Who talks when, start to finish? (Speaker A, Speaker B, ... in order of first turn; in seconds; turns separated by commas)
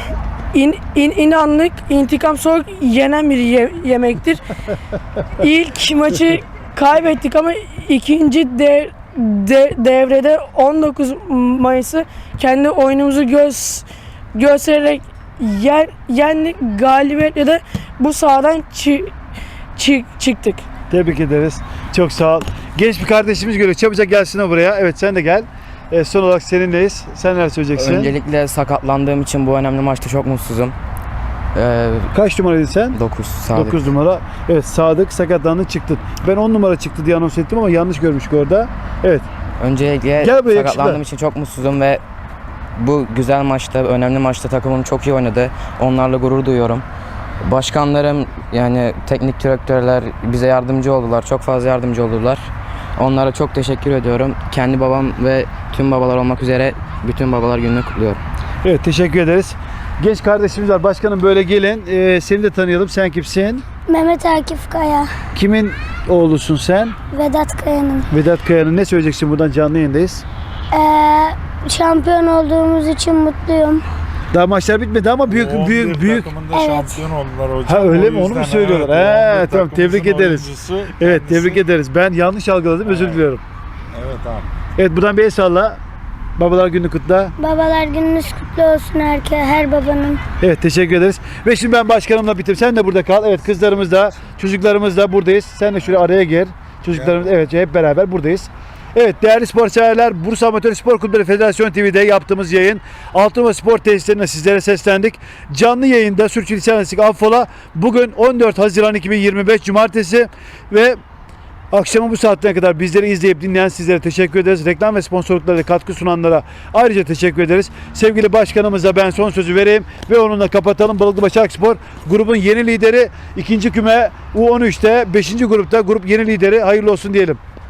Speaker A: 0.5-4.4, Speaker A: 5.4-19.1, Speaker A: 19.8-20.6, Speaker B: 20.9-28.1, Speaker C: 27.8-30.7, Speaker C: 31.5-32.1, Speaker B: 32.1-33.0, Speaker C: 32.9-33.8, Speaker B: 33.5-39.2, Speaker C: 39.6-42.0, Speaker B: 40.2-41.0, Speaker C: 42.8-46.8, Speaker C: 47.4-58.2, Speaker B: 58.6-63.6, Speaker D: 63.9-65.1, Speaker B: 65.3-67.0, Speaker D: 67.1-68.0, Speaker B: 68.1-70.2, Speaker D: 70.7-73.8, Speaker B: 74.3-76.3, Speaker E: 75.3-81.6, Speaker D: 76.5-77.1, Speaker B: 77.7-83.4, Speaker E: 82.9-83.2, Speaker E: 83.9-84.5, Speaker B: 84.8-85.8, Speaker B: 86.4-87.3, Speaker D: 87.4-90.2, Speaker B: 90.4-111.0, Speaker B: 111.7-127.4